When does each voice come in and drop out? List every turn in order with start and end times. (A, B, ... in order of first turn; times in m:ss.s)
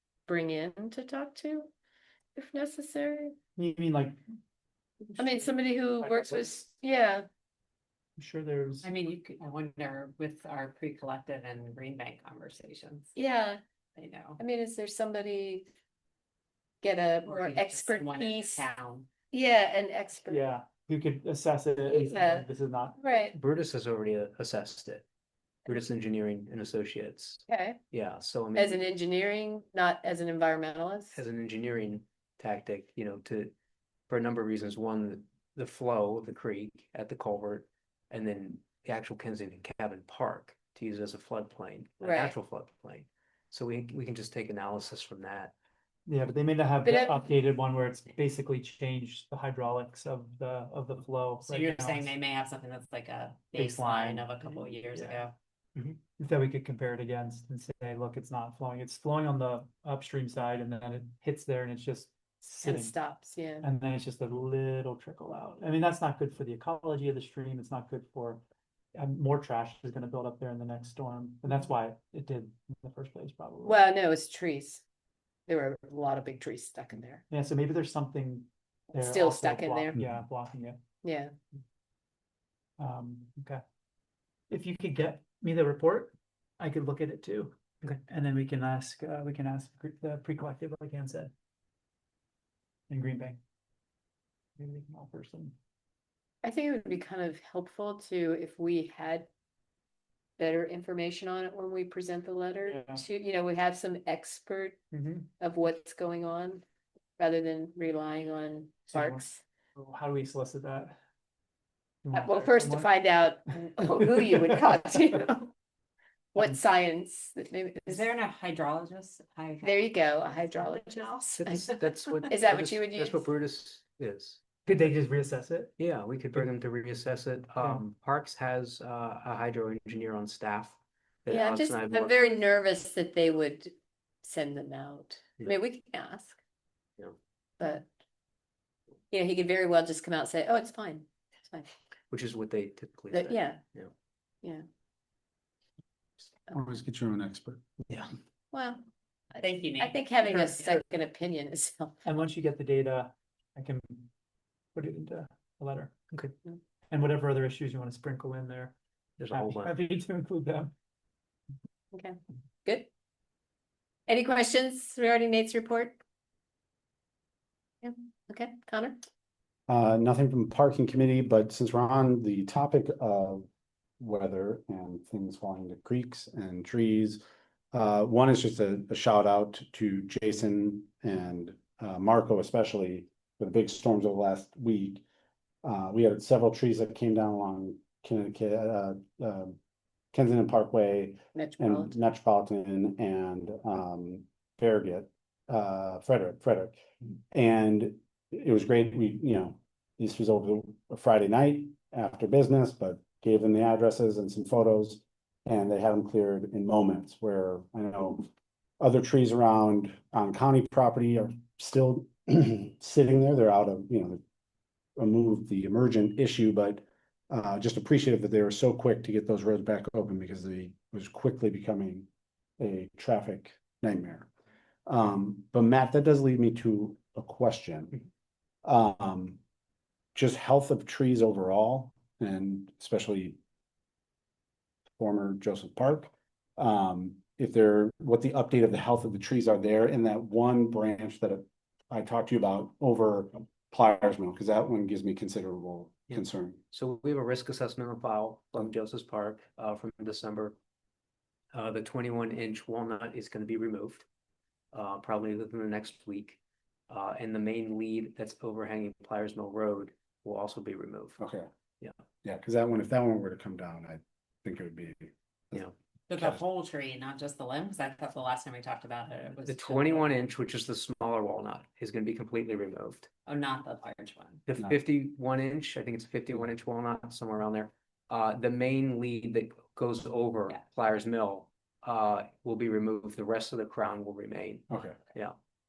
0:00.3-0:01.7 A
0:02.4-0:03.3 A
0:03.6-0:04.2 B
0:05.2-0:07.3 A
0:06.0-0:06.4 B
0:08.2-0:08.9 B
0:08.8-0:13.1 C
0:13.2-0:13.6 A
0:14.0-0:14.4 C
0:14.4-0:15.6 A
0:16.8-0:18.6 A
0:17.2-0:19.1 C
0:19.3-0:20.4 A
0:20.3-0:23.3 B
0:21.8-0:22.5 A
0:23.0-0:23.3 A
0:23.3-0:25.0 D
0:25.6-0:28.8 D
0:27.5-0:27.8 A
0:28.5-0:31.2 A
0:31.1-0:33.5 D
0:34.1-0:45.5 D
0:42.0-0:42.4 A
0:46.0-0:52.1 B
0:46.8-0:47.3 A
0:51.4-0:55.3 C
0:53.5-0:55.3 B
0:56.2-1:03.0 B
1:02.6-1:03.6 A
1:03.6-1:08.4 B
1:08.9-1:13.8 B
1:13.6-1:14.8 A
1:15.5-1:17.2 A
1:17.3-1:20.8 B
1:18.9-1:19.9 A
1:21.0-1:21.3 A
1:22.8-1:23.6 B
1:24.5-1:31.3 B
1:32.9-1:33.4 B
1:34.6-1:35.6 B
1:36.4-1:39.3 A
1:40.4-1:44.8 A
1:42.7-1:43.0 B
1:44.9-1:45.3 B
1:45.4-1:46.6 A
1:47.2-1:49.4 A
1:48.9-1:49.2 B
1:49.8-1:51.0 B
1:52.0-1:52.9 B
1:52.1-1:55.5 A
1:53.9-1:54.8 B
1:56.3-1:58.1 A
1:57.8-1:59.8 C
1:59.6-2:01.8 A
2:01.4-2:04.4 D
2:02.3-2:03.2 A
2:04.6-2:05.7 B
2:05.8-2:12.2 D
2:11.3-2:13.7 A
2:14.2-2:16.4 A
2:17.6-2:17.9 A
2:19.1-2:21.7 A
2:22.1-2:23.9 D
2:23.1-2:23.6 A
2:26.5-2:27.6 E
2:28.5-2:28.8 A
2:29.3-2:30.8 C
2:29.8-2:32.0 A
2:32.0-2:34.1 B
2:34.7-2:35.9 B
2:36.9-2:38.8 B
2:39.2-2:39.7 D
2:39.3-2:40.7 B
2:41.9-2:42.9 A
2:44.1-2:46.0 A
2:47.8-2:49.0 A
2:49.7-2:53.4 E
2:54.0-2:57.2 E
2:57.7-3:05.0 E
3:05.6-3:09.6 E
3:10.1-3:16.8 E
3:11.3-3:12.0 A
3:17.3-3:28.3 E
3:28.8-3:34.2 E
3:35.0-3:42.1 E
3:42.6-3:44.3 E
3:44.8-3:48.0 E
3:48.6-3:49.4 E
3:50.1-3:53.4 E
3:55.0-4:06.6 E
4:06.1-4:10.6 D
4:11.5-4:14.0 D
4:14.7-4:16.4 D
4:16.9-4:21.2 D
4:21.2-4:21.5 E
4:22.2-4:25.6 E
4:26.1-4:30.1 C
4:29.4-4:33.1 D
4:33.2-4:34.4 C
4:34.5-4:45.4 D
4:44.7-4:45.0 E